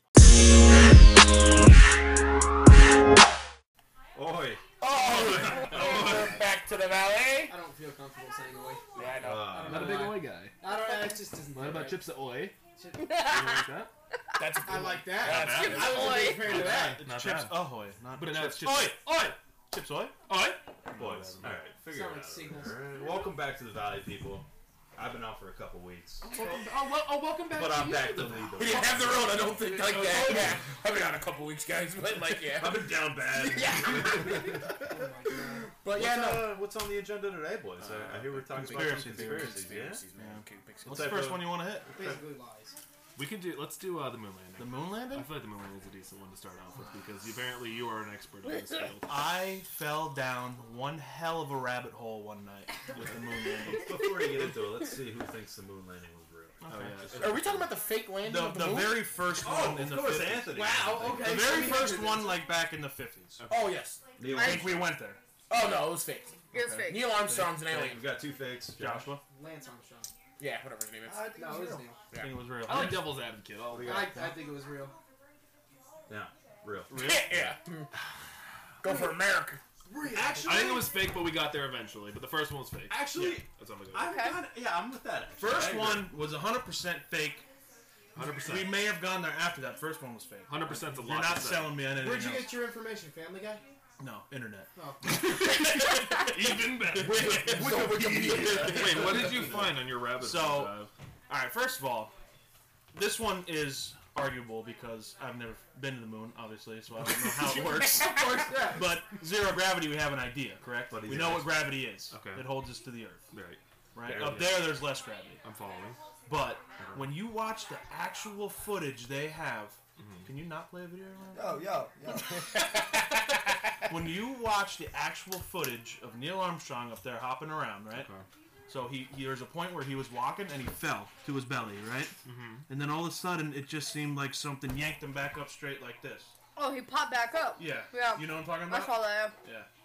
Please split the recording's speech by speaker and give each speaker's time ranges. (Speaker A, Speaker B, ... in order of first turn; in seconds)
Speaker A: 4.1-4.6, 5.7-6.3, 9.2-10.1, 20.9-26.6, 27.5-30.3, 32.4-34.9, 35.9-40.0, 40.8-42.2, 53.7-56.6, 59.3-61.7, 64.2-65.0, 67.5-69.1, 73.7-74.4, 76.1-77.5, 80.1-81.0, 82.9-86.1, 97.2-99.8, 110.9-111.7, 114.1-114.4, 116.8-117.1
Speaker B: 4.8-7.5, 8.9-9.8, 14.4-16.4, 28.6-36.6, 38.5-41.3, 48.4-48.9, 57.2-59.1, 63.5-64.0, 65.5-68.1, 70.4-71.3, 76.9-77.9, 78.8-79.6, 97.0-99.5
Speaker C: 5.0-6.4, 9.6-10.5, 11.5-12.6, 13.2-13.9, 15.2-19.4, 20.3-20.7, 26.2-29.0, 29.6-30.6, 37.8-38.5, 43.1-49.3, 56.7-57.7, 63.4-63.8, 72.7-74.3, 80.5-83.0, 83.5-84.1, 88.1-88.8, 90.5-91.8, 95.3-97.7, 98.6-100.9, 112.1-112.7, 113.3-114.8, 115.4-116.0, 120.0-120.3, 127.9-128.3, 132.2-132.7
Speaker D: 5.4-5.8, 10.9-11.1, 12.9-13.7, 15.4-16.6, 64.2-64.7, 66.5-67.2, 83.9-84.4, 136.6-139.3
Speaker E: 7.5-12.0, 12.8-13.1, 14.6-17.0, 21.8-23.3, 34.8-35.7, 41.9-42.8, 60.5-62.4, 69.2-70.1, 71.3-72.0, 73.8-74.9, 79.9-80.7, 91.9-93.6, 94.7-95.0, 98.3-98.7, 107.9-108.9
Speaker F: 16.4-20.1, 20.9-21.6, 38.5-41.9, 44.6-45.3, 49.1-54.0, 56.6-57.4, 58.2-63.4, 64.3-65.2, 66.5-67.5, 68.8-69.2, 72.1-73.2, 76.9-77.2, 83.1-83.4, 85.4-87.4, 88.4-92.5, 94.0-94.7, 96.5-99.6, 100.1-100.8, 101.3-102.1, 102.9-113.3, 113.9-115.4, 116.3-121.8, 123.9-128.1, 128.7-132.2, 132.7-136.3, 137.6-139.7
Speaker G: 71.0-71.9, 121.3-122.5